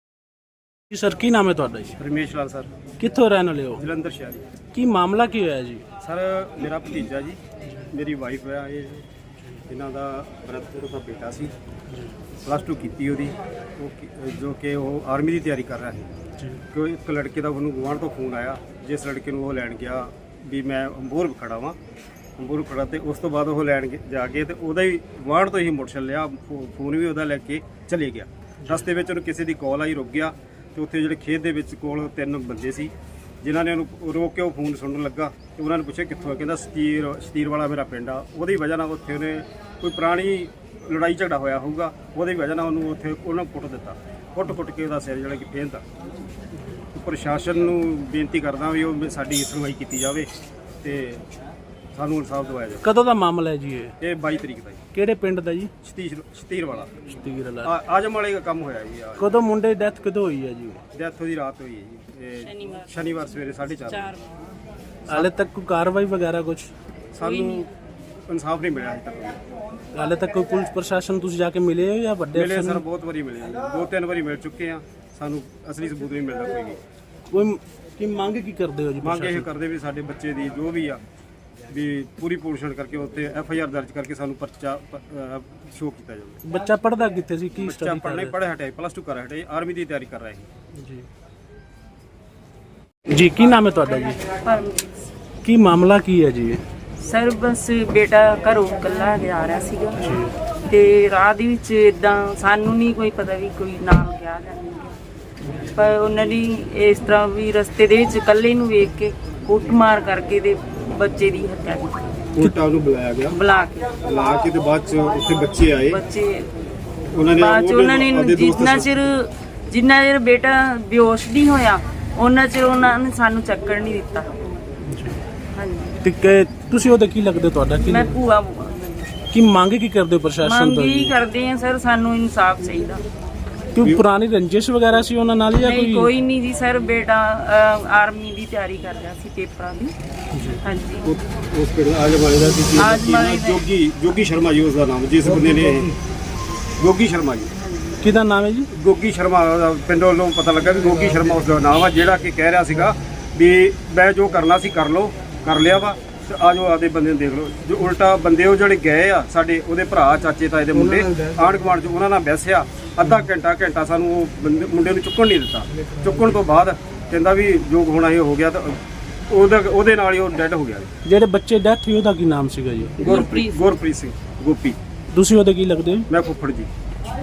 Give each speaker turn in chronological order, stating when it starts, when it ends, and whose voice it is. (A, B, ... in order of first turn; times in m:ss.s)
0:00.9-0:01.9 A
0:02.0-0:02.7 B
0:03.0-0:03.9 A
0:03.8-0:04.5 B
0:04.7-0:05.8 A
0:06.0-0:07.4 B
0:07.9-0:09.0 B
0:09.7-0:11.5 B
0:12.4-0:16.1 B
0:16.7-0:21.8 B
0:22.4-0:45.8 B
0:46.9-0:50.3 B
0:50.8-0:51.2 B
0:51.9-0:52.8 B
0:52.8-0:53.9 A
0:54.0-0:54.8 B
0:54.9-0:55.7 A
0:55.8-0:57.0 B
0:57.2-0:57.7 A
0:57.6-0:59.3 B
0:59.2-1:00.8 A
1:00.9-1:04.1 B
1:02.4-1:04.2 C
1:05.1-1:06.7 A
1:07.1-1:07.7 B
1:07.2-1:07.6 C
1:08.3-1:09.4 B
1:09.9-1:12.8 A
1:12.3-1:16.8 B
1:17.3-1:19.5 A
1:19.0-1:21.0 B
1:21.7-1:26.4 B
1:26.4-1:28.4 A
1:27.6-1:30.5 B
1:30.8-1:31.0 A
1:33.1-1:34.2 A
1:34.4-1:35.1 C
1:35.4-1:36.6 A
1:37.0-1:40.1 C
1:40.0-1:40.3 A
1:40.7-1:44.9 C
1:45.7-1:52.0 C
1:52.4-1:53.4 B
1:53.3-1:53.9 C
1:54.0-1:56.0 B
1:55.9-1:56.5 C
1:57.1-1:58.9 B
1:57.4-2:04.4 C
2:04.8-2:05.2 A
2:05.6-2:06.0 C
2:06.0-2:08.1 A
2:07.8-2:09.1 C
2:09.3-2:11.2 A
2:10.4-2:13.0 C
2:13.7-2:16.1 A
2:15.6-2:19.9 C
2:20.3-2:20.6 A
2:20.6-2:21.1 C
2:21.0-2:25.9 B
2:22.8-2:23.6 C
2:26.8-2:27.5 B
2:27.6-2:28.0 C
2:28.0-2:28.7 A
2:28.7-2:48.8 B
2:49.3-2:50.9 B
2:51.0-2:53.0 A
2:53.0-2:54.8 B
2:53.0-2:53.6 C
2:55.1-2:56.0 A
2:56.1-2:56.7 B